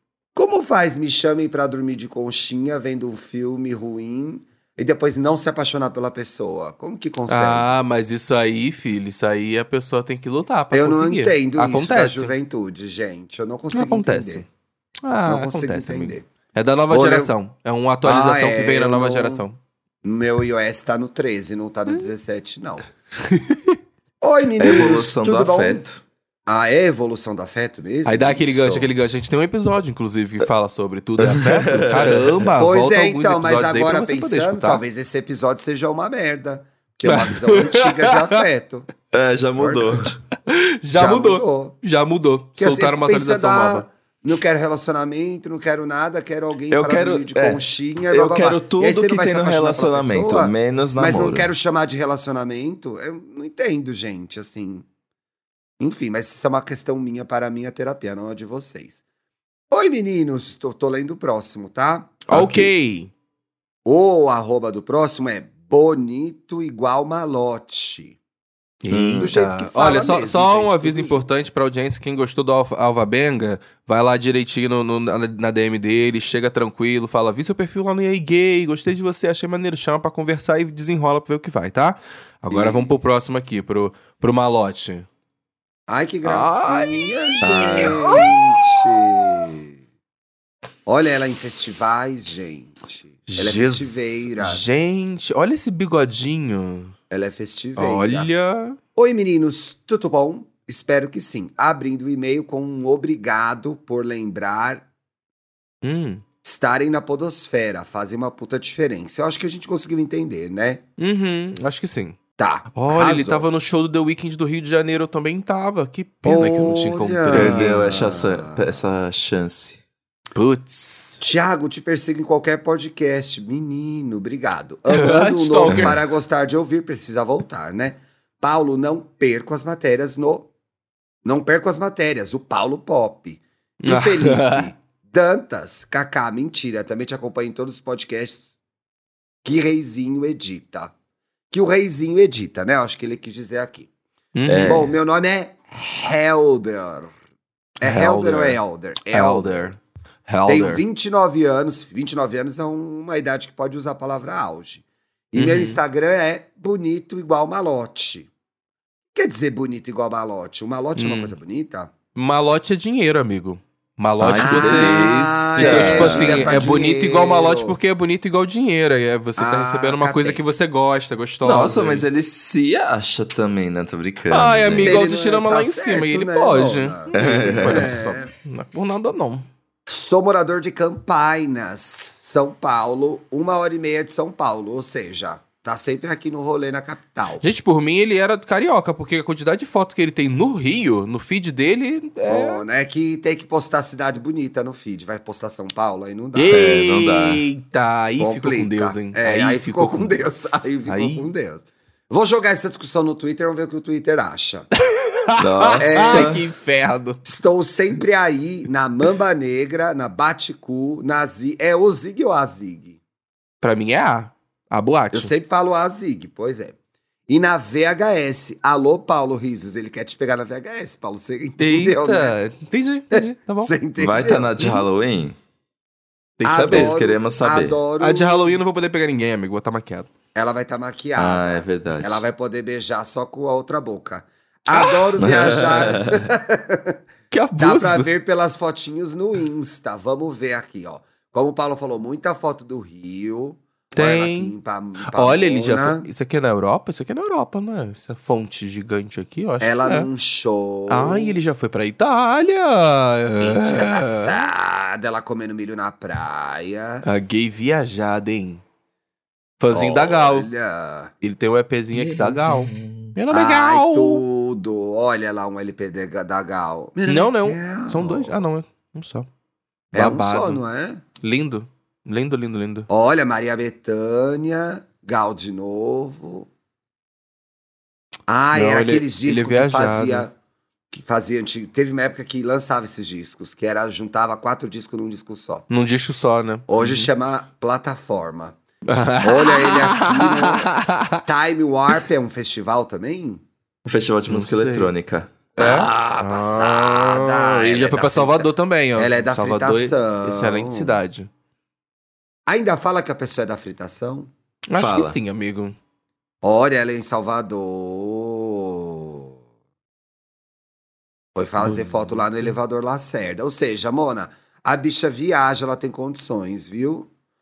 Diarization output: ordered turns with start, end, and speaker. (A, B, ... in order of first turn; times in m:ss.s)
0:00.4-0:07.7 A
0:07.3-0:12.3 B
0:10.7-0:14.5 A
0:13.7-0:14.5 B
0:15.0-0:19.6 B
0:15.3-0:16.3 A
0:16.9-0:17.3 A
0:18.0-0:19.4 A
0:20.0-0:22.9 A
0:23.2-0:23.8 B
0:24.2-0:25.8 A
0:24.6-0:26.0 C
0:26.5-0:28.9 A
0:28.0-0:34.8 B
0:31.2-0:32.5 C
0:32.6-0:38.9 A
0:37.0-0:38.4 B
0:39.1-0:40.2 C
0:39.6-0:40.2 A
0:40.5-0:43.9 B
0:41.0-0:41.8 A
0:42.6-0:54.8 A
0:46.7-0:51.5 C
0:55.8-0:59.0 A
0:59.7-1:02.4 A
1:02.3-1:03.1 B
1:02.3-1:02.7 C
1:03.8-1:08.2 A
1:08.8-1:25.1 B
1:08.9-1:09.3 C
1:09.1-1:11.3 A
1:22.5-1:22.9 A
1:25.9-1:29.8 A
1:26.2-1:28.4 B
1:27.4-1:28.1 C
1:30.9-1:34.6 A
1:33.3-1:36.9 B
1:37.1-1:38.3 A
1:37.8-1:38.8 B
1:39.0-1:44.9 A
1:45.8-1:46.2 B
1:46.4-1:50.8 A
1:51.0-1:52.2 B
1:52.4-1:53.5 A
1:52.7-1:57.7 B
1:56.2-1:58.7 A
1:57.3-1:59.8 C
2:00.4-2:01.2 B
2:01.2-2:10.5 A
2:04.9-2:06.0 B
2:05.7-2:06.0 C
2:11.2-2:18.5 A
2:13.8-2:14.7 B
2:19.4-2:20.9 A
2:21.5-2:23.9 A
2:24.4-2:24.9 B
2:24.5-2:24.9 C
2:24.6-2:27.1 A
2:27.8-2:29.6 A
2:27.8-2:30.8 B
2:30.5-2:38.3 A
2:35.4-2:35.8 B
2:39.2-2:41.9 A
2:41.0-2:41.3 B
2:42.2-2:52.1 B
2:44.2-2:46.7 C
2:44.4-2:47.8 A
2:49.4-2:50.4 A
2:51.4-2:55.0 C
2:54.3-2:59.5 B
2:54.7-2:58.3 A
2:57.1-2:57.9 C
2:59.9-3:07.4 A
3:07.4-3:12.6 B
3:12.2-3:16.7 A
3:16.4-3:20.3 B
3:16.5-3:17.4 C
3:18.2-3:24.7 A
3:20.8-3:21.2 B
3:24.9-3:27.2 B
3:25.4-3:26.4 C
3:25.8-3:26.4 A
3:27.2-3:33.0 A
3:33.6-3:35.3 B
3:35.1-3:36.8 A
3:37.3-3:42.4 A
3:41.6-3:43.7 B
3:43.1-3:44.5 A
3:44.0-3:45.4 C
3:46.4-3:47.0 B
3:46.4-3:48.6 A
3:46.7-3:47.8 C
3:48.0-3:50.1 B
3:50.4-3:57.0 A
3:51.2-3:52.2 C
3:54.7-3:55.1 B
3:55.2-3:56.3 C
3:57.3-3:58.1 B
3:57.6-4:06.1 A
4:04.0-4:04.6 B
4:05.1-4:10.1 B
4:09.6-4:11.4 A
4:10.9-4:14.5 B
4:13.4-4:17.0 A
4:17.0-4:18.6 B
4:19.6-4:20.5 B
4:19.7-4:21.1 A
4:21.2-4:24.2 B
4:21.9-4:23.2 C
4:23.3-4:28.4 A
4:27.1-4:29.3 B
4:29.9-4:31.0 A
4:29.9-4:30.6 B
4:31.2-4:32.9 B
4:32.9-4:36.5 A
4:38.3-4:40.3 A
4:38.5-4:40.3 B
4:40.9-4:45.7 A
4:45.7-4:47.1 B
4:46.7-4:48.6 A
4:48.9-4:51.2 B
4:49.2-4:50.7 A
4:51.2-4:53.4 A
4:53.8-4:55.4 C
4:54.3-4:54.9 B
4:55.6-5:01.3 B
4:55.6-5:01.0 A
5:02.5-5:04.3 A
5:04.7-5:05.8 B
5:04.8-5:05.2 C
5:06.4-5:09.3 A
5:11.4-5:17.1 A
5:11.6-5:12.5 B